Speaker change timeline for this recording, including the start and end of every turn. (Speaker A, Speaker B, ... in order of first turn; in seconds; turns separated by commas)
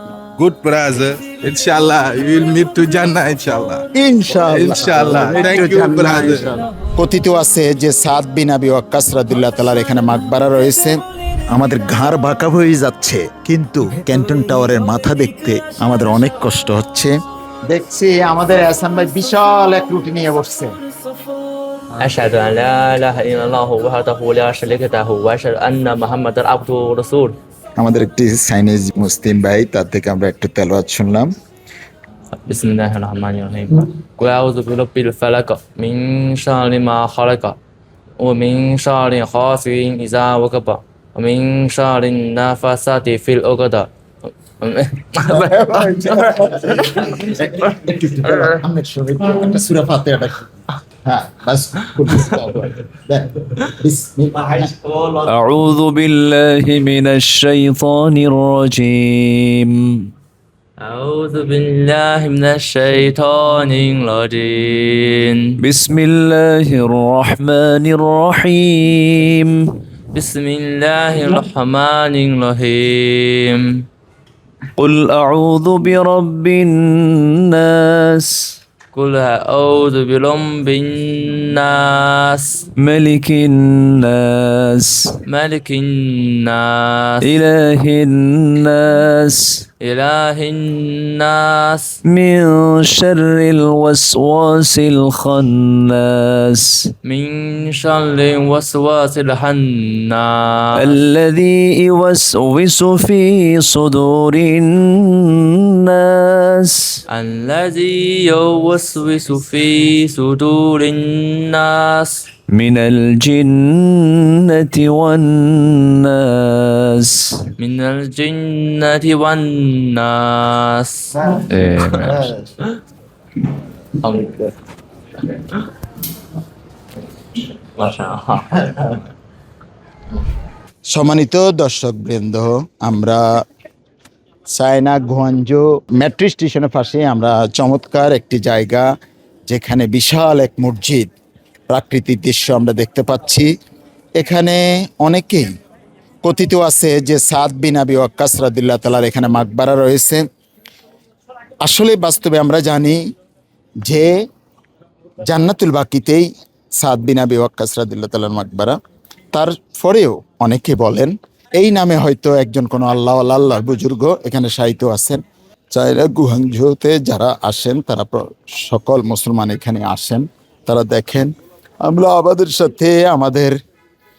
Speaker A: 0.4-3.9, Speaker B: 4.0-20.7, Speaker A: 4.5-6.5, Speaker C: 22.0-27.4, Speaker B: 27.8-31.3, Speaker C: 32.5-37.5, Speaker C: 38.2-43.9, Speaker C: 44.6-47.3, Speaker B: 45.3-50.5, Speaker C: 48.3-48.6, Speaker B: 51.0-54.7, Speaker C: 54.7-55.3, Speaker D: 55.3-60.0, Speaker C: 60.8-65.5, Speaker D: 65.6-69.6, Speaker C: 70.1-73.7, Speaker D: 74.8-78.5, Speaker C: 78.9-82.6, Speaker D: 82.8-85.0, Speaker C: 85.3-87.2, Speaker D: 87.2-89.7, Speaker C: 89.8-91.9, Speaker D: 92.1-96.9, Speaker C: 97.0-101.0, Speaker D: 100.8-106.9, Speaker C: 107.1-112.2, Speaker D: 112.5-117.4, Speaker C: 117.6-122.2, Speaker D: 121.5-122.2, Speaker B: 122.0-122.4, Speaker C: 124.0-124.5, Speaker C: 125.2-125.6, Speaker C: 127.8-129.0, Speaker B: 130.9-133.4, Speaker B: 134.5-138.9, Speaker B: 139.5-141.1, Speaker B: 141.7-143.5, Speaker B: 144.2-145.5, Speaker B: 146.2-150.2, Speaker B: 151.6-153.0, Speaker B: 153.8-154.1, Speaker B: 155.2-156.3, Speaker B: 156.8-158.8, Speaker B: 159.3-165.2, Speaker B: 165.7-173.6